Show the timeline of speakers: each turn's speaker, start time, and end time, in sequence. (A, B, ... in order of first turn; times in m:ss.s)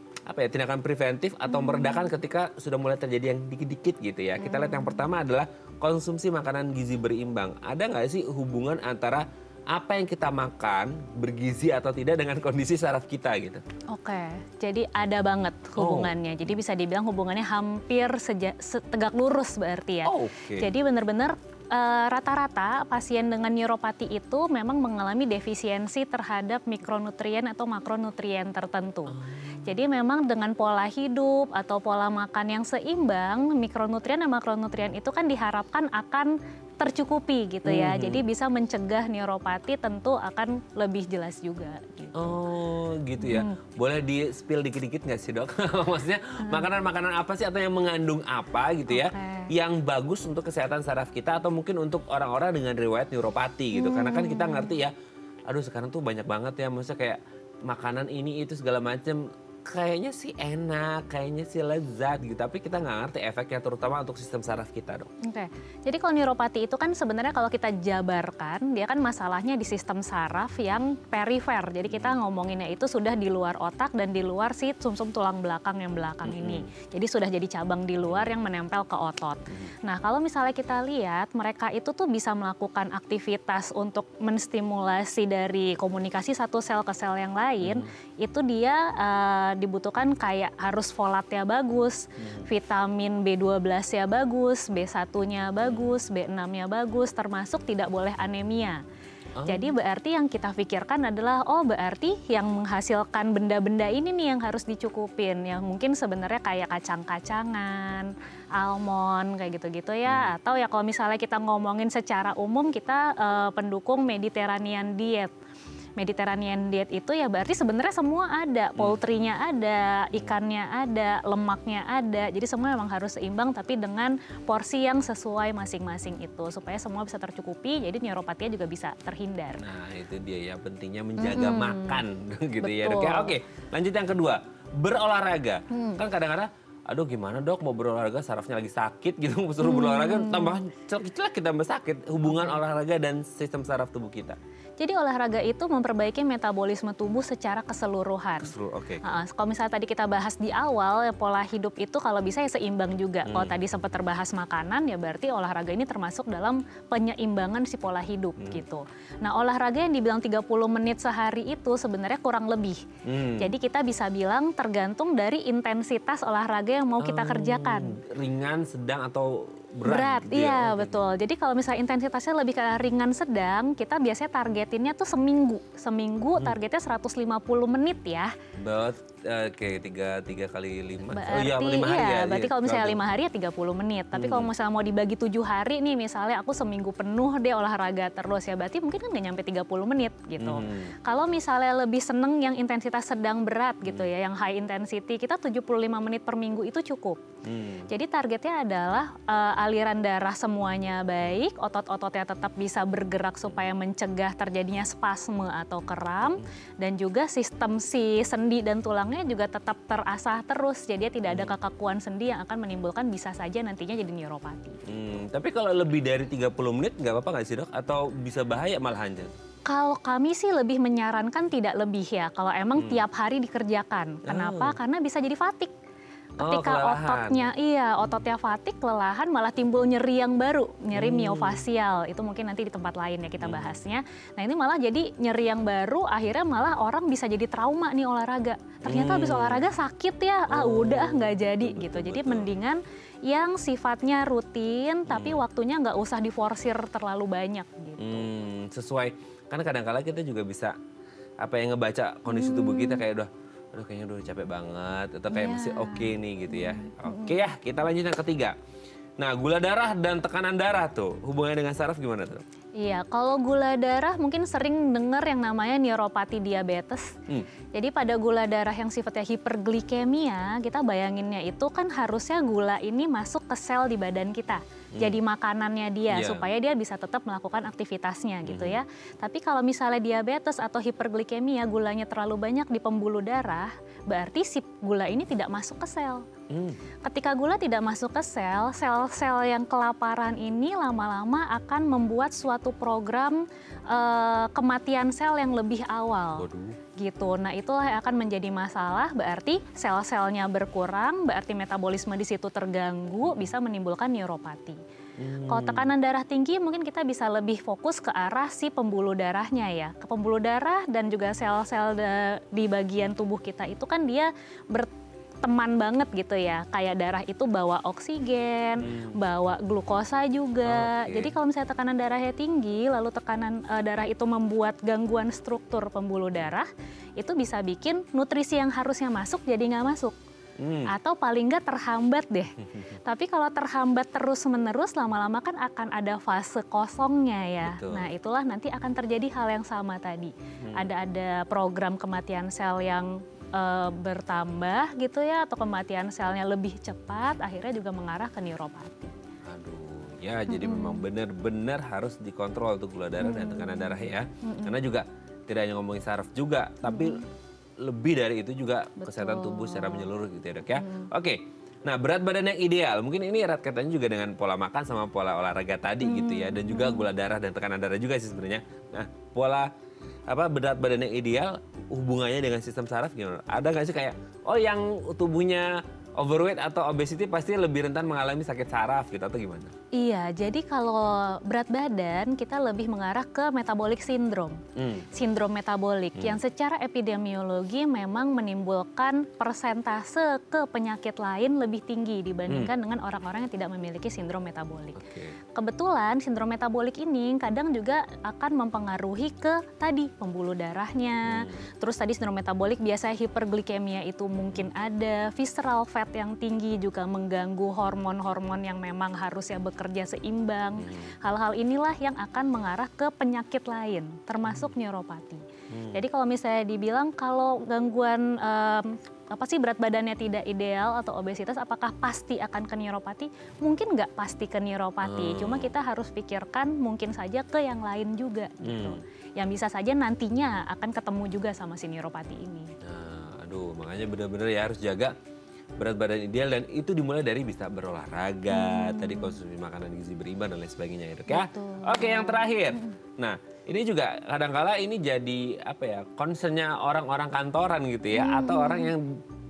0:00.3-0:13.6 A
0:01.5-0:02.0 B
0:04.4-0:05.0 B
0:13.9-0:42.3 B
0:15.8-0:16.1 A
0:20.0-0:20.7 A
0:29.1-0:29.6 A
0:37.6-0:38.2 A
0:42.1-0:54.9 A
0:43.2-0:43.6 B
0:48.9-0:49.5 B
0:53.7-0:54.7 B
0:55.5-1:05.1 A
1:05.2-1:38.8 B
1:11.9-1:12.2 A
1:16.2-1:16.7 A
1:19.5-1:19.7 A
1:27.6-1:27.9 A
1:35.6-1:36.0 A
1:39.4-1:39.7 A
1:39.5-1:55.3 B
1:56.0-2:09.6 B
2:09.6-2:24.4 A
2:11.2-2:12.0 B
2:12.6-2:13.4 B
2:15.7-2:16.0 B
2:19.6-2:20.6 B
2:24.8-2:42.8 B
2:28.4-2:29.1 A
2:33.2-2:33.6 A
2:38.4-2:38.6 A
2:43.0-2:43.5 A
2:43.4-2:48.0 B
2:47.0-2:51.0 A
2:49.8-2:58.3 B
2:58.6-3:03.1 A
3:01.0-3:17.2 B
3:04.1-3:04.5 A
3:10.4-3:10.9 A
3:17.4-3:17.9 A
3:17.9-3:34.8 B
3:31.3-3:31.6 A
3:34.8-3:39.4 A
3:39.7-3:45.7 B
3:42.8-3:43.0 A
3:44.2-3:44.8 A
3:46.4-4:08.3 B
3:46.4-3:47.4 A
3:50.9-3:51.6 A
3:53.4-3:53.8 A
3:58.8-3:59.7 A
4:00.5-4:02.5 A
4:05.1-4:05.4 A
4:08.0-4:10.7 A
4:11.4-4:18.6 A
4:12.3-4:13.0 B
4:15.3-4:17.5 B
4:19.2-4:22.4 A
4:22.8-4:27.2 B
4:27.7-4:46.3 B
4:36.1-4:36.5 A
4:38.4-4:38.8 A
4:46.5-4:46.8 A
4:47.0-4:56.4 B
4:56.4-4:56.8 A
4:57.0-5:04.8 B
5:05.2-5:05.9 A
5:05.5-5:14.9 B
5:15.4-5:30.2 B
5:18.8-5:19.2 A
5:20.6-5:21.4 A
5:30.6-5:30.9 A
5:30.9-5:49.1 B
5:37.6-5:38.1 A
5:40.6-5:40.9 A
5:49.4-5:57.2 A
5:50.5-5:51.0 B
5:53.2-5:54.8 B
5:56.8-5:57.2 B
5:57.8-6:09.7 A
5:59.0-6:00.1 B
6:00.8-6:01.1 B
6:06.0-6:07.1 B
6:10.3-6:19.7 A
6:19.9-6:24.6 B
6:24.8-6:25.1 A
6:25.1-6:35.0 B
6:26.1-6:26.4 A
6:35.0-6:35.4 A
6:35.5-7:12.7 B
6:41.2-6:41.6 A
6:50.8-6:51.1 A
6:54.5-6:54.7 A
6:55.7-6:56.0 A
7:05.0-7:05.7 A
7:08.6-7:09.0 A
7:12.8-7:15.1 A
7:15.8-7:29.2 A
7:18.5-7:19.4 B
7:21.3-7:22.9 B
7:28.1-7:28.9 B